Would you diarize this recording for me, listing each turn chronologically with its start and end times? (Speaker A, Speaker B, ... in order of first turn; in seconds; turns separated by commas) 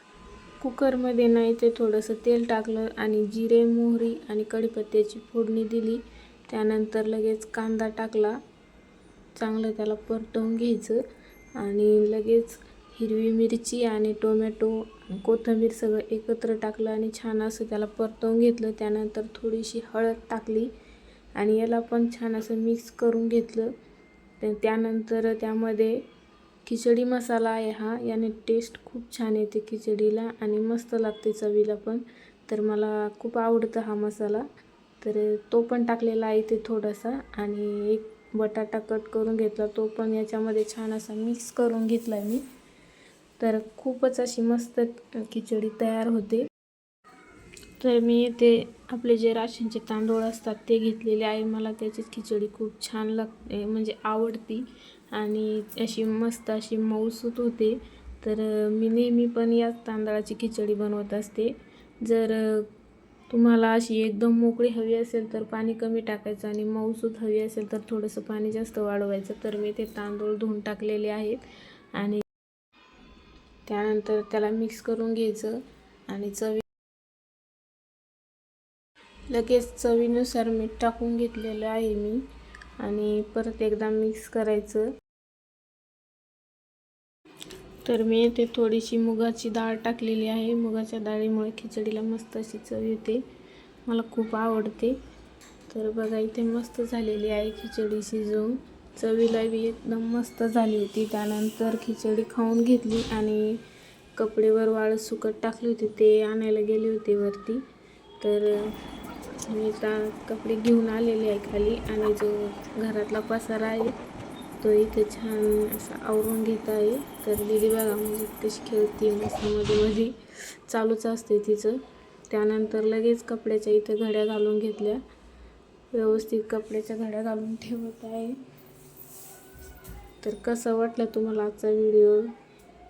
Speaker A: 0.6-8.4, Speaker A: 9.4-11.0, Speaker A: 11.6-20.7, Speaker A: 21.4-23.8, Speaker A: 24.4-26.0, Speaker A: 26.7-34.5, Speaker A: 35.0-42.4, Speaker A: 43.4-46.5, Speaker A: 47.8-62.7, Speaker A: 63.3-71.4, Speaker A: 71.9-72.2, Speaker A: 73.7-76.6, Speaker A: 79.3-82.3, Speaker A: 82.8-84.9, Speaker A: 87.8-93.2, Speaker A: 93.8-95.0, Speaker A: 95.7-103.6, Speaker A: 104.2-107.6, Speaker A: 108.2-108.8, Speaker A: 109.4-114.0, Speaker A: 114.6-125.0, Speaker A: 125.9-128.4, Speaker A: 130.2-132.3